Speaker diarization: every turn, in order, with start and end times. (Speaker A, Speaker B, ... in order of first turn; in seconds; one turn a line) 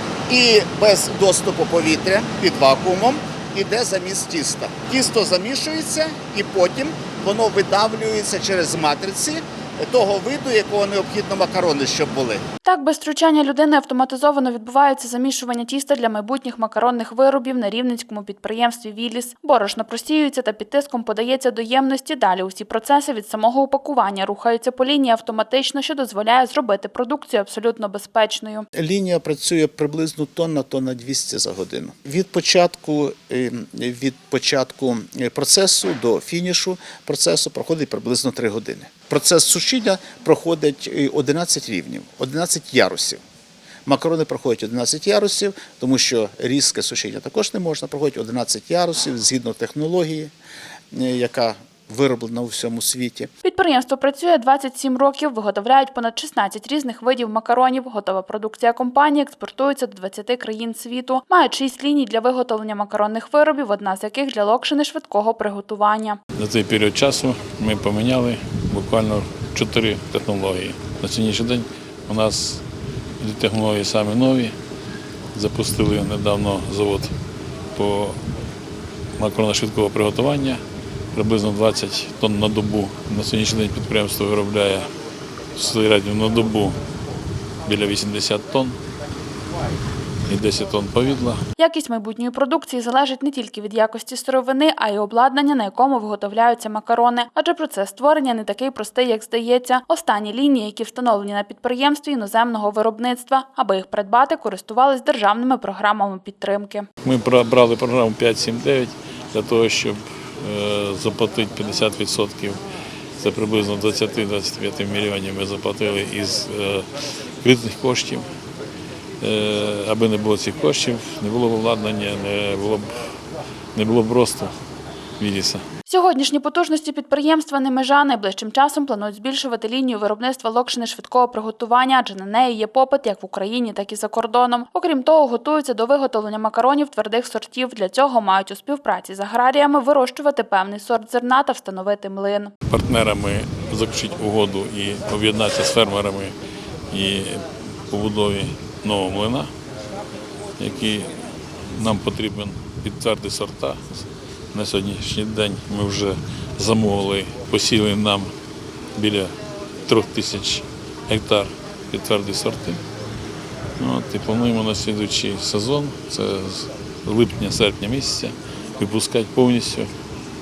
Speaker A: 0.3-12.4
Speaker B: 12.7-28.7
Speaker A: 28.8-43.2
Speaker A: 43.9-50.3
Speaker A: 50.9-53.3
Speaker B: 53.4-66.2
Speaker C: 66.4-72.6
Speaker C: 73.2-74.5
Speaker C: 75.3-77.1
Speaker C: 77.8-78.2
Speaker C: 79.2-80.6
Speaker C: 81.1-84.9
Speaker C: 85.6-86.8
Speaker C: 87.7-88.8
Speaker C: 90.3-91.4
Speaker B: 91.6-106.9
Speaker C: 107.0-112.6
Speaker C: 113.2-116.9
Speaker C: 117.4-118.3
Speaker C: 119.2-123.0
Speaker C: 123.8-124.5
Speaker C: 125.2-125.6
Speaker B: 125.9-142.5
Speaker C: 142.7-146.3
Speaker C: 146.9-149.5
Speaker C: 150.6-151.2
Speaker C: 151.7-158.3
Speaker C: 159.0-159.3
Speaker C: 159.8-162.8
Speaker C: 163.8-169.9